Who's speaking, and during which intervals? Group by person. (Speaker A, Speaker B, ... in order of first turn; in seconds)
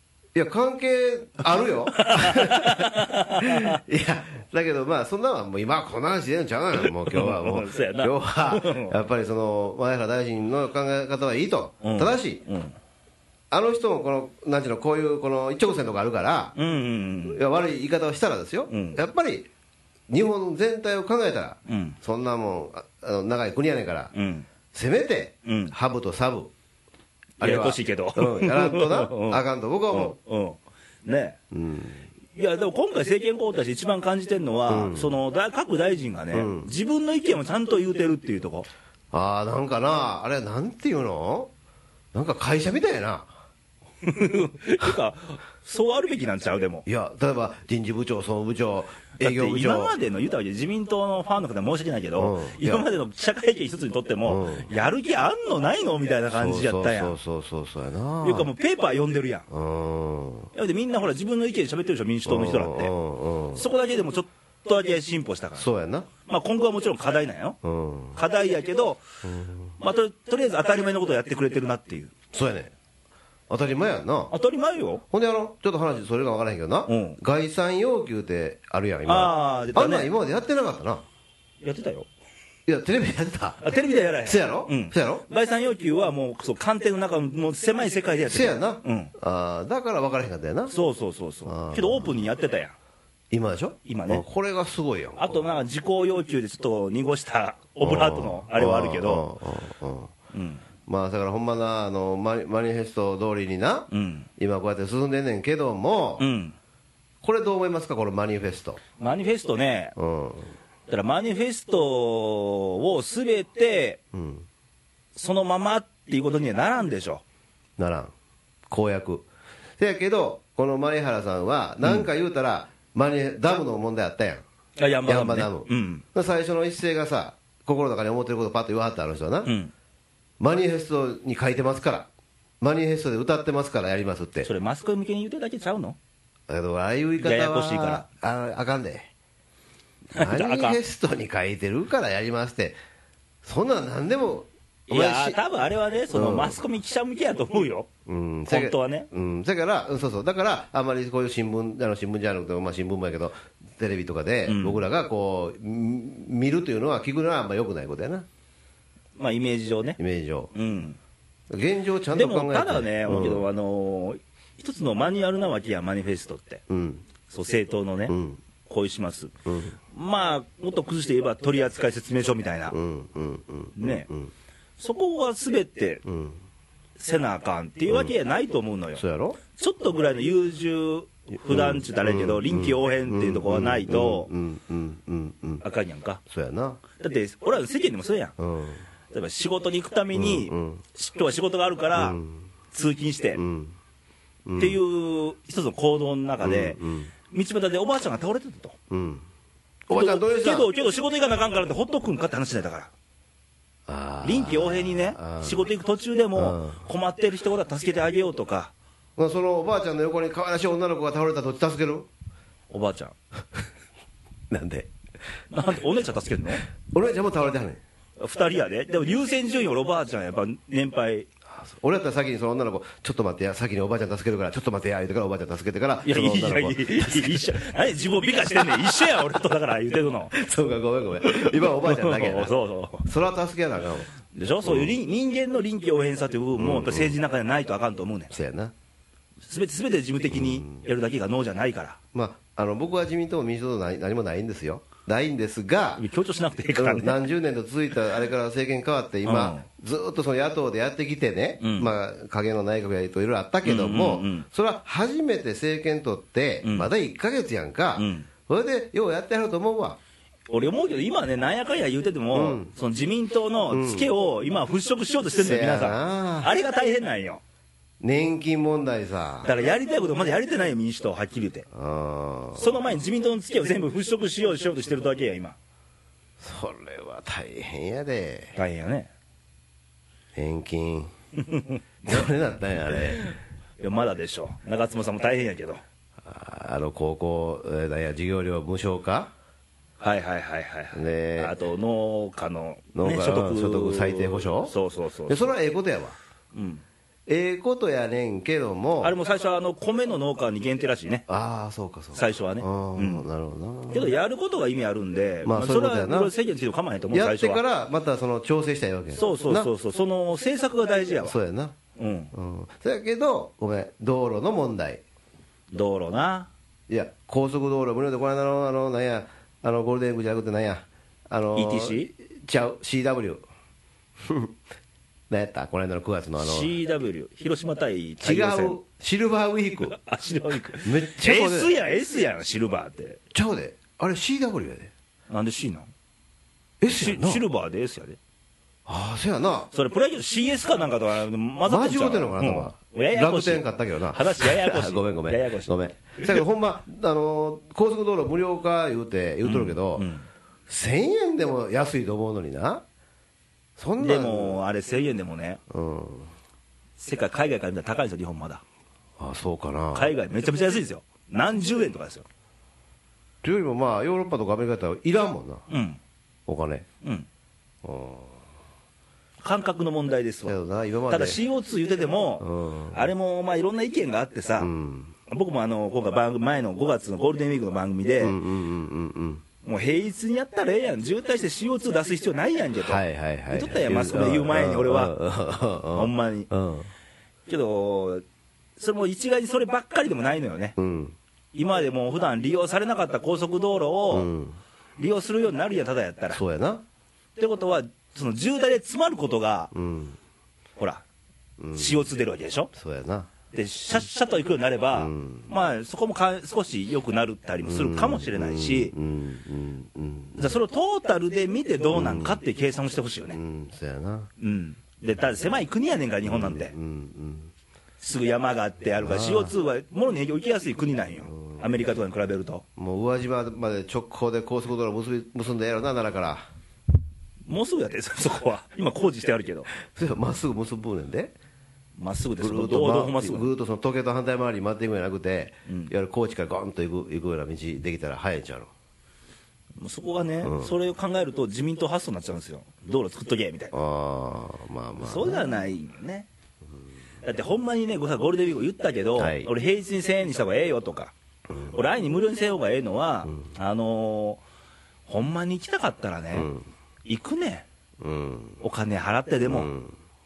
Speaker A: 0.3-12.4, 13.5-16.6, 17.3-19.5, 20.1-24.1, 24.7-26.5, 27.4-30.2, 31.5-32.0, 34.7-35.2, 36.3-36.7, 39.1-41.5, 42.1-43.3, 46.9-50.0, 52.2-52.9, 54.3-54.7, 56.3-58.5, 59.5-60.5, 62.3-63.6, 65.6-66.1, 67.6-68.2, 69.2-69.7, 72.3-72.7, 73.5-74.3, 75.1-81.0, 82.7-83.6, 84.2-85.2, 88.3-90.7, 91.5-92.2, 93.3-95.3, 97.8-100.1, 100.9-106.2, 107.2-108.8, 110.0-110.5, 114.1-114.5, 117.8-118.1, 118.7-119.3, 119.8-124.4, 125.1-129.5, 130.4-132.1, 132.6-134.5, 136.5-139.1, 140.2-142.8, 143.4-145.4, 146.1-146.6, 148.1-158.3, 160.0-160.5, 161.5-163.4, 166.7-167.1, 168.1-168.4, 169.5-169.8, 172.7-174.3, 176.1-176.4, 179.0-179.4, 181.4-185.6, 186.3-186.8, 188.4-188.8, 190.1-190.8, 191.9-192.4, 193.4-193.8, 194.4-194.8, 196.4-197.1, 198.9-199.2, 199.9-200.7, 203.9-205.7, 206.3-206.8, 209.2-212.1, 214.5-214.9, 216.9-217.8, 221.5-227.5, 230.3-234.1, 234.7-234.9, 236.6-237.2, 238.3-238.7, 240.3-240.8, 242.1-246.0, 246.8-260.0, 262.3-262.7, 263.7-264.1, 265.4-266.5, 268.0-269.5, 271.7-272.7, 276.4-278.6, 280.4-281.1, 282.1-283.3, 286.2-289.3, 290.9-291.5, 292.9-294.7, 295.3-296.2, 297.3-299.1, 301.3-304.1, 305.4-306.3, 307.1-309.7, 311.2-311.8, 312.3-315.0, 316.9-323.4, 324.2-324.5, 325.3-326.8, 328.2-329.9, 330.8-331.7, 333.3-334.9, 336.8-337.4, 338.9-339.7, 341.7-350.1, 350.7-352.8, 353.8-354.6, 355.7-356.3, 359.2-360.1, 363.4-365.6, 366.5-366.9, 367.8-368.4, 370.5-371.4, 372.4-373.1, 374.6-375.1, 378.2-379.4, 382.8-386.9, 390.8-391.2, 394.1-394.6, 396.3-396.8, 399.7-400.2, 401.6-402.0, 402.7-403.3, 404.9-405.5, 407.6-410.6, 411.9-412.4, 413.3-414.3, 416.2-417.5, 419.0-419.5, 421.3-421.6, 422.8-426.5, 429.9-431.3, 432.4-438.7, 440.4-440.7, 443.7-445.6, 449.2-449.5, 451.5-451.8, 456.3-456.6, 458.0-458.6, 459.5-460.0
Speaker B: 1.9-3.8, 6.8-8.9, 11.8-12.8, 16.6-17.4, 18.7-19.0, 21.7-22.0, 24.1-24.5, 25.4-25.7, 27.4-31.4, 32.4-38.7, 44.0-46.9, 49.2-57.2, 58.2-59.5, 60.5-62.9, 63.5-65.7, 66.3-67.6, 68.2-69.0, 69.8-72.1, 74.3-75.0, 76.9-77.2, 79.1-80.1, 81.6-82.1, 83.6-89.1, 90.7-92.7, 93.8-94.2, 95.2-99.3, 100.3-100.6, 103.9-104.3, 106.2-106.6, 109.0-110.0, 110.9-114.0, 115.2-117.2, 121.8-122.1, 124.8-126.0, 129.4-129.7, 134.4-136.0, 137.2-138.1, 140.2-140.8, 144.9-147.9, 148.5-149.1, 154.5-154.8, 159.2-160.0, 160.5-161.0, 162.1-166.6, 167.3-169.3, 169.9-172.8, 173.8-174.1, 174.8-176.1, 177.0-179.0, 179.5-184.3, 185.6-186.2, 187.0-188.3, 189.1-192.2, 192.7-193.4, 194.6-198.8, 199.9-202.9, 204.2-208.7, 212.7-213.1, 215.5-216.7, 218.2-221.3, 226.1-230.3, 231.2-233.1, 234.3-238.3, 239.5-242.0, 246.0-247.2, 249.2-249.7, 251.6-251.9, 253.6-254.5, 256.6-256.9, 258.0-258.3, 260.5-267.4, 269.4-271.7, 272.6-275.6, 278.6-279.1, 281.5-282.2, 282.9-285.8, 290.0-295.6, 296.5-296.8, 299.0-301.2, 302.1-303.3, 303.9-307.6, 309.1-311.4, 312.0-312.3, 315.7-316.5, 321.6-322.1, 326.4-328.8, 329.9-333.2, 335.3-335.9, 336.9-338.2, 339.7-346.4, 349.4-350.3, 354.0-355.6, 357.0-358.6, 359.9-362.3, 365.7-366.0, 369.4-370.6, 371.1-374.7, 375.3-378.4, 379.6-385.1, 385.9-386.5, 387.5-388.2, 388.8-390.8, 391.5-394.3, 395.0-396.4, 397.4-399.7, 400.8-401.0, 401.7-402.7, 403.5-408.9, 410.4-413.4, 414.4-416.7, 418.0-422.6, 427.5-429.7, 432.0-433.5, 435.7-435.9, 439.8-443.8, 445.0-446.3, 447.2-451.1, 451.7-454.4, 455.1-456.5, 457.1-457.7, 458.6-459.7